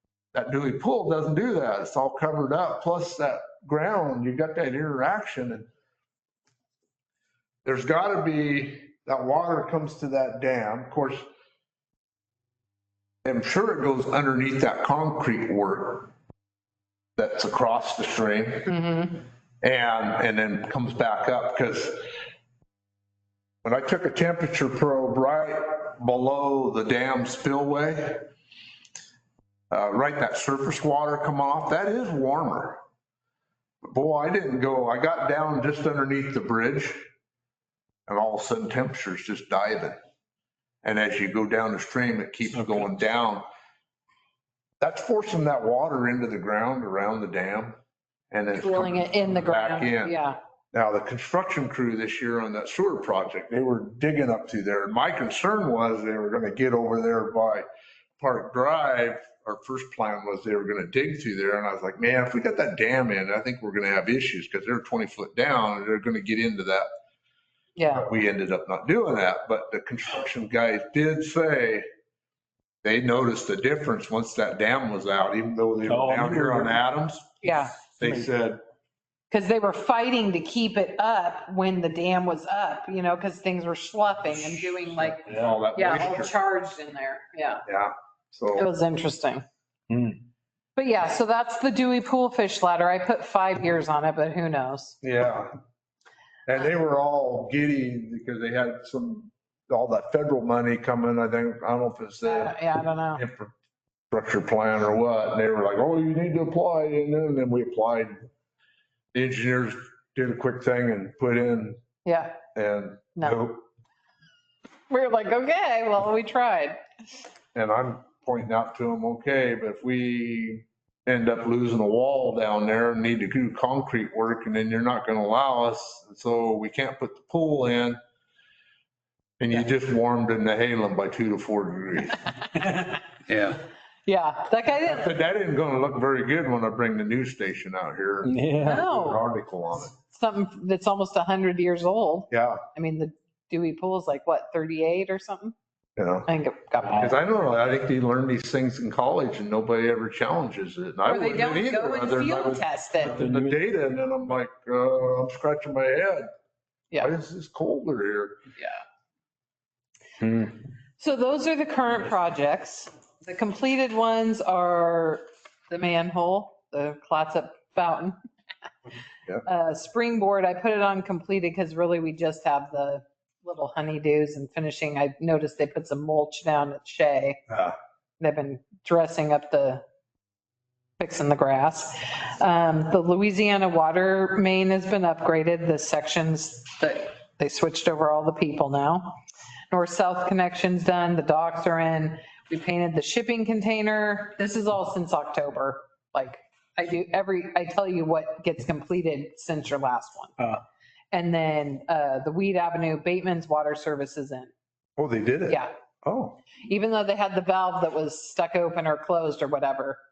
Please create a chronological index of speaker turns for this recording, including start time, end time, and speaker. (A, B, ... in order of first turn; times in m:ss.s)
0:00.3-0:05.7 A
0:07.6-0:11.3 A
0:13.2-0:16.1 A
0:17.2-0:18.7 A
0:18.7-0:19.2 B
0:19.6-0:22.0 A
0:23.6-0:28.3 A
0:29.7-0:32.8 A
0:33.8-0:37.0 A
0:38.1-0:40.0 A
0:40.8-0:43.4 A
0:44.8-0:47.8 A
0:48.3-0:50.2 A
0:48.5-0:50.4 B
0:50.7-0:57.6 A
0:58.2-1:06.9 A
1:07.8-1:08.1 B
1:07.9-1:11.8 A
1:12.8-1:17.3 A
1:15.9-1:16.8 C
1:17.4-1:17.8 B
1:17.9-1:18.2 C
1:18.0-1:18.6 A
1:19.3-1:27.6 B
1:24.4-1:26.3 A
1:27.6-1:28.7 A
1:28.6-1:29.4 B
1:29.9-1:30.2 C
1:30.8-1:35.0 B
1:35.0-1:35.5 A
1:36.5-1:43.5 A
1:42.2-1:43.2 B
1:44.1-1:48.1 A
1:49.1-1:51.8 A
1:52.0-1:52.4 B
1:52.5-1:53.6 A
1:54.9-1:56.8 B
1:57.5-2:08.0 A
2:09.4-2:12.3 A
2:14.0-2:15.1 B
2:14.8-2:19.9 A
2:18.2-2:18.8 C
2:18.6-2:19.2 B
2:20.1-2:25.5 B
2:22.3-2:22.6 A
2:26.0-2:26.3 A
2:26.3-2:27.1 B
2:26.8-2:36.3 A
2:31.0-2:33.2 B
2:33.1-2:33.6 C
2:37.0-2:38.4 A
2:40.2-2:40.6 C
2:41.0-2:48.2 B
2:49.4-2:57.4 B
2:57.5-2:57.8 A
2:58.2-2:59.8 B
3:01.0-3:09.2 B
3:09.7-3:20.3 B
3:21.1-3:24.5 B
3:25.0-3:26.4 A
3:26.6-3:30.0 B